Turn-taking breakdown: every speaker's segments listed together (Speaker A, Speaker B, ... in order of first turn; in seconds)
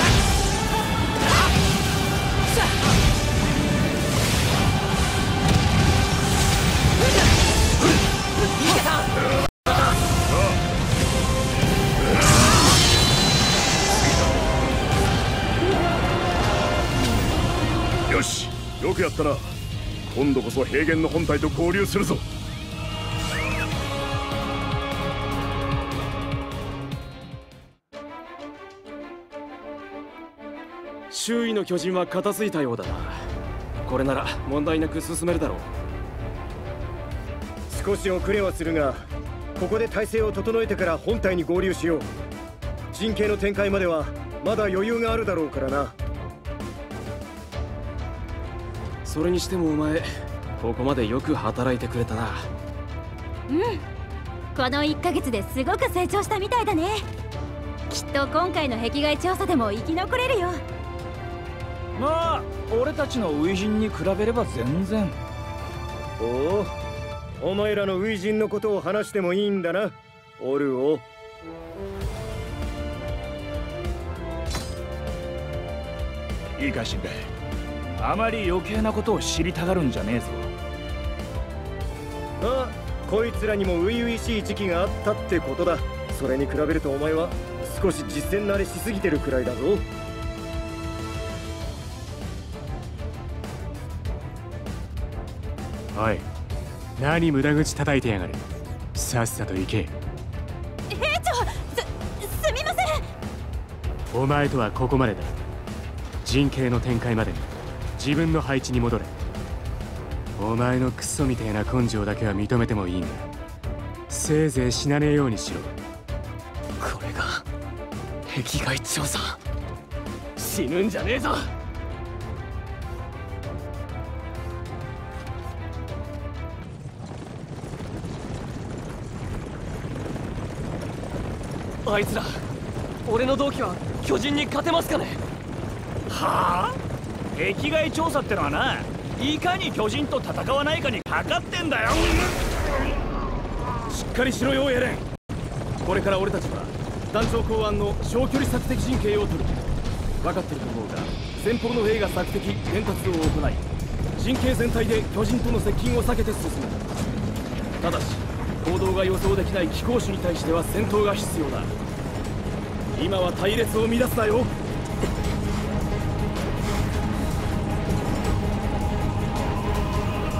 Speaker A: 10.3-10.6, 18.1-22.2
Speaker B: 31.1-33.2, 33.8-35.7, 49.0-52.5, 116.8-117.4, 118.3-119.3, 120.3-121.5, 131.8-132.2, 133.1-135.2, 143.9-145.0, 145.8-149.6, 150.2-153.6, 154.2-156.9, 157.8-161.7, 162.9-164.5
Speaker C: 37.7-42.1, 42.9-45.9, 66.2-66.7, 67.4-71.0, 82.4-89.8
Speaker D: 53.5-53.8, 54.5-57.1, 57.9-60.6, 100.9-103.0
Speaker E: 62.0-65.2, 76.6-77.3, 78.0-80.5, 136.1-136.8, 137.3-142.3
Speaker F: 95.9-96.3, 97.0-99.9, 104.1-105.3, 106.2-109.1, 110.4-113.3, 114.1-115.7